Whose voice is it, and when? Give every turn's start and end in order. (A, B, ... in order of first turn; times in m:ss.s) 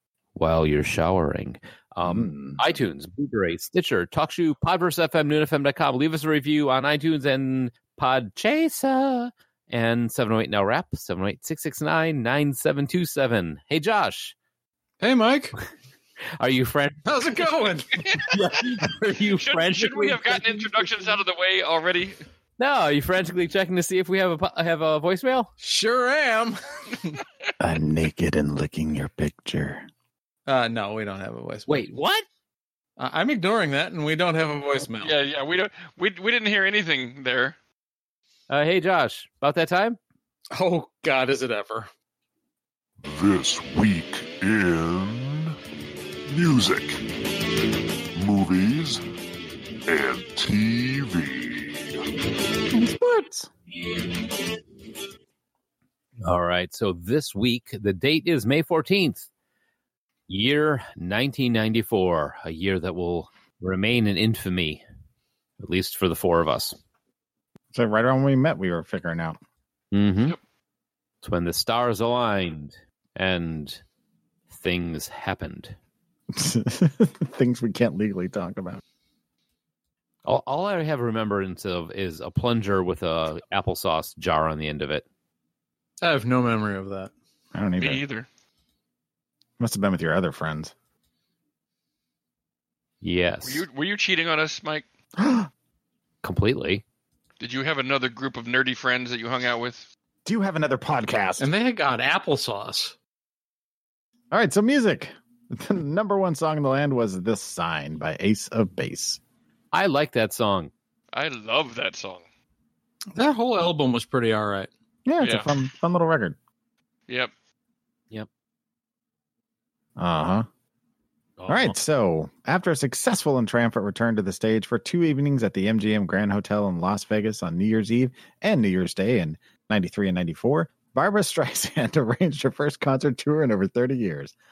0:00.4-0:14.3 A
0:02.0-0:02.6 B
0:15.0-0:15.5 C
0:16.4-0:17.3 A
0:17.0-0:18.2 C
0:18.2-0:21.1 A
0:19.4-0:22.2 D
0:22.6-0:25.5 A
0:25.6-0:27.2 C
0:27.6-0:29.9 B
0:30.5-0:31.8 C
0:31.7-0:32.2 A
0:33.0-0:35.1 C
0:35.0-0:37.5 D
0:38.5-0:40.0 A
0:40.5-0:41.9 C
0:43.0-0:45.5 E
0:46.3-0:47.0 E
0:48.1-0:49.0 E
0:49.9-0:52.0 E
0:52.7-0:53.5 B
0:56.2-0:59.3 A
1:00.3-1:04.8 A
1:05.6-1:06.8 A
1:07.7-1:09.4 B
1:09.9-1:10.4 A
1:11.2-1:13.8 A
1:14.5-1:15.8 A
1:16.3-1:18.8 B
1:20.2-1:25.0 A
1:26.0-1:27.1 C
1:27.5-1:28.0 B
1:27.8-1:28.2 D
1:29.6-1:30.7 B
1:33.0-1:33.6 A
1:33.4-1:34.8 D
1:35.2-1:35.5 B
1:36.2-1:36.8 A
1:37.4-1:39.9 D
1:40.2-1:41.5 B
1:41.4-1:42.9 C
1:44.3-1:49.2 B
1:49.7-1:50.7 A
1:51.1-1:52.2 D
1:53.1-1:54.7 C
1:55.0-1:56.4 B
1:55.2-1:55.5 D
2:00.0-2:00.4 B
2:01.4-2:01.8 A
2:01.5-2:14.3 B